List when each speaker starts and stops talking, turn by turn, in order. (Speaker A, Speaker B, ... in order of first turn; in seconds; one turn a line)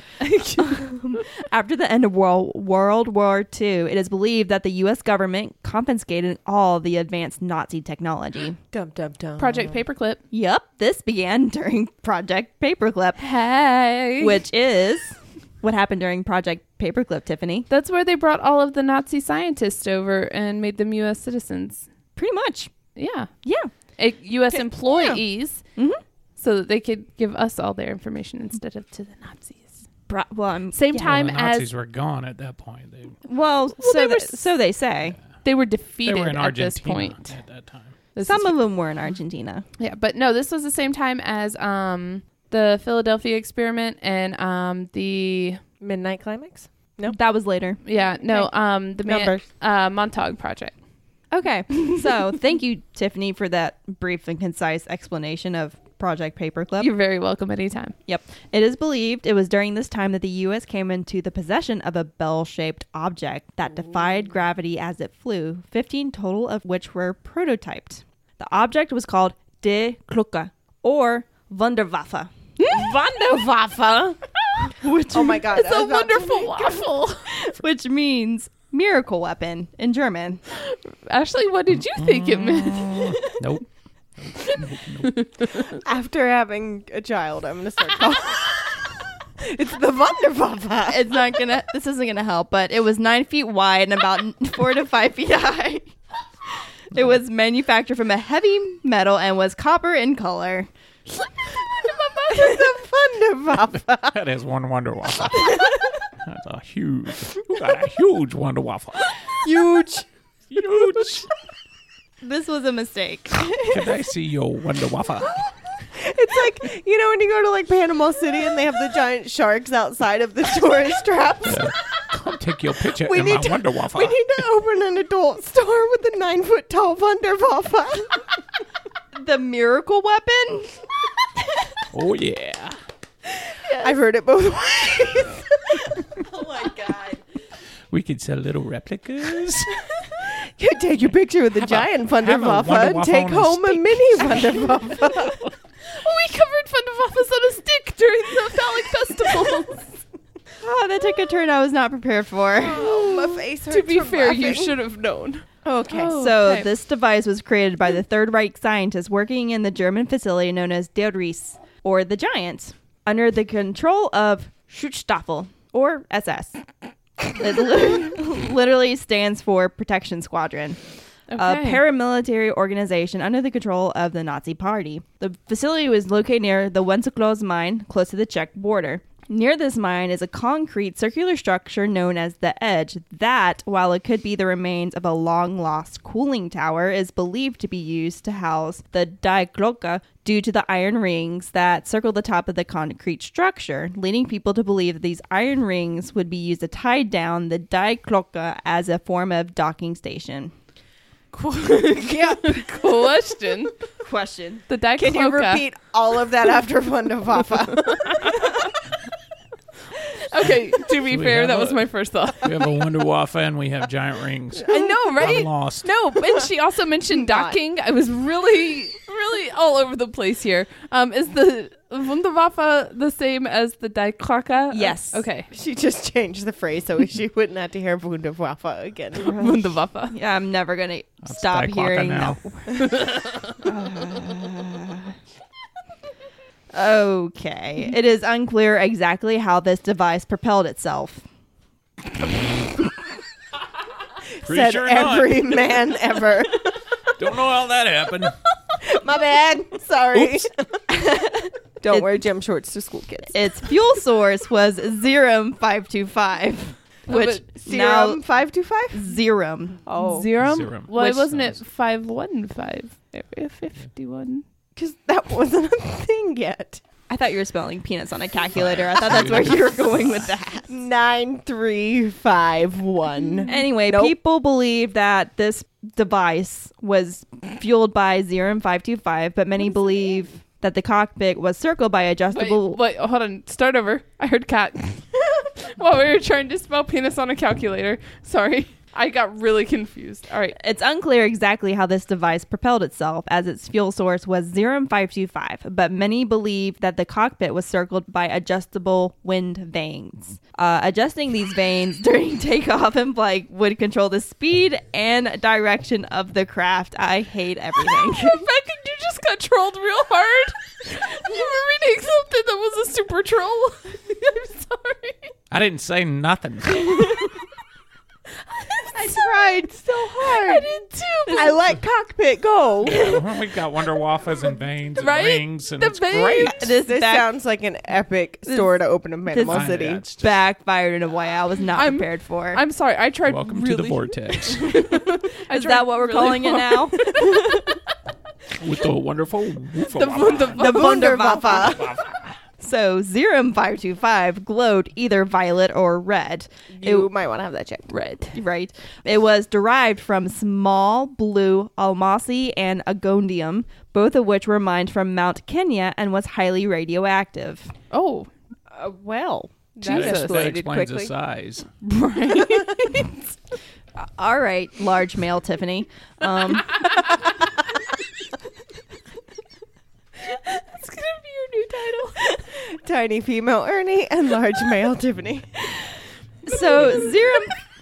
Speaker A: 0.2-0.8
Speaker B: 0.6-8.6
Speaker C: 8.7-9.8
Speaker A: 9.4-10.2
Speaker B: 10.3-13.2
Speaker A: 13.2-14.3
Speaker B: 14.2-17.7
Speaker A: 17.7-21.9
Speaker B: 22.1-22.7
Speaker A: 22.9-23.3
Speaker B: 23.4-23.7
Speaker A: 23.9-25.6
Speaker B: 25.8-26.0
Speaker A: 26.4-29.8
Speaker B: 30.1-31.1
Speaker A: 30.7-31.7
Speaker D: 30.9-33.2
Speaker B: 33.2-35.2
Speaker A: 33.8-34.5
Speaker A: 35.4-37.4
Speaker D: 36.0-38.0
Speaker A: 38.1-38.5
Speaker B: 38.2-39.6
Speaker A: 39.8-45.6
Speaker C: 45.8-47.2
Speaker B: 47.1-47.8
Speaker A: 47.8-50.8
Speaker C: 49.0-49.4
Speaker B: 51.3-56.9
Speaker A: 56.8-58.0
Speaker B: 58.0-72.3
Speaker C: 72.7-74.2
Speaker B: 74.7-75.5
Speaker C: 75.1-76.8
Speaker A: 75.5-77.3
Speaker B: 77.4-80.4
Speaker A: 80.5-83.2
Speaker D: 81.7-85.3
Speaker A: 84.5-85.4
Speaker C: 85.8-91.2
Speaker B: 90.9-95.9
Speaker B: 96.9-100.7
Speaker C: 102.2-104.2
Speaker D: 104.1-109.2
Speaker C: 109.4-110.0
Speaker D: 110.5-111.3
Speaker B: 112.2-113.9
Speaker D: 113.5-115.5
Speaker C: 115.8-121.7
Speaker D: 121.4-124.2
Speaker C: 122.9-128.2
Speaker B: 129.1-130.8
Speaker D: 131.9-132.8
Speaker C: 133.8-136.9
Speaker B: 136.2-137.2
Speaker D: 137.9-139.8
Speaker C: 140.2-145.4
Speaker D: 141.6-144.3
Speaker A: 145.8-150.0
Speaker B: 150.6-152.8
Speaker C: 152.6-154.8
Speaker A: 152.7-156.7
Speaker C: 155.6-156.2
Speaker B: 156.1-166.6
Speaker B: 167.3-170.8
Speaker A: 171.3-171.8
Speaker B: 171.4-200.5
Speaker A: 201.3-203.7
Speaker C: 201.7-202.7
Speaker B: 204.0-204.6
Speaker A: 204.7-205.6
Speaker C: 204.9-208.3
Speaker A: 207.9-208.3
Speaker A: 210.2-212.6
Speaker D: 211.1-211.8
Speaker D: 212.4-215.9
Speaker A: 214.6-225.5
Speaker C: 217.1-217.6
Speaker B: 224.7-225.2
Speaker C: 225.5-229.5
Speaker A: 229.2-230.2
Speaker B: 230.1-235.1
Speaker D: 231.2-232.4
Speaker B: 236.7-241.2
Speaker C: 244.3-247.0
Speaker D: 244.4-245.6
Speaker D: 247.1-248.4
Speaker C: 248.8-253.4
Speaker B: 253.3-258.2
Speaker C: 257.1-259.1
Speaker A: 257.1-257.4
Speaker B: 258.9-259.8
Speaker C: 259.8-260.3
Speaker A: 260.0-264.4
Speaker D: 260.4-261.6
Speaker C: 264.8-266.8
Speaker B: 267.1-270.8
Speaker D: 268.5-270.3
Speaker C: 270.7-274.1
Speaker B: 273.5-282.8
Speaker A: 282.3-290.6
Speaker B: 290.6-308.5
Speaker A: 307.9-315.3
Speaker D: 315.5-317.3
Speaker A: 318.5-321.6
Speaker C: 318.9-320.7
Speaker C: 321.3-323.2
Speaker D: 322.8-326.7
Speaker A: 325.0-326.7
Speaker B: 326.4-327.2
Speaker C: 326.8-330.0
Speaker B: 329.3-332.6
Speaker D: 329.4-330.4
Speaker A: 331.7-337.8
Speaker D: 333.2-334.8
Speaker B: 335.5-337.4
Speaker D: 338.6-340.7
Speaker A: 339.9-341.1
Speaker C: 340.6-341.9
Speaker B: 340.6-341.9
Speaker D: 341.6-342.1
Speaker B: 342.6-347.1
Speaker C: 346.7-347.9
Speaker A: 347.9-348.4
Speaker B: 348.3-357.7
Speaker A: 357.9-358.3
Speaker C: 358.7-361.1
Speaker A: 359.8-360.5
Speaker D: 359.8-361.7
Speaker A: 361.8-363.1
Speaker C: 362.4-362.7
Speaker B: 364.0-367.0
Speaker A: 370.3-372.3
Speaker C: 372.3-375.5
Speaker B: 376.4-377.6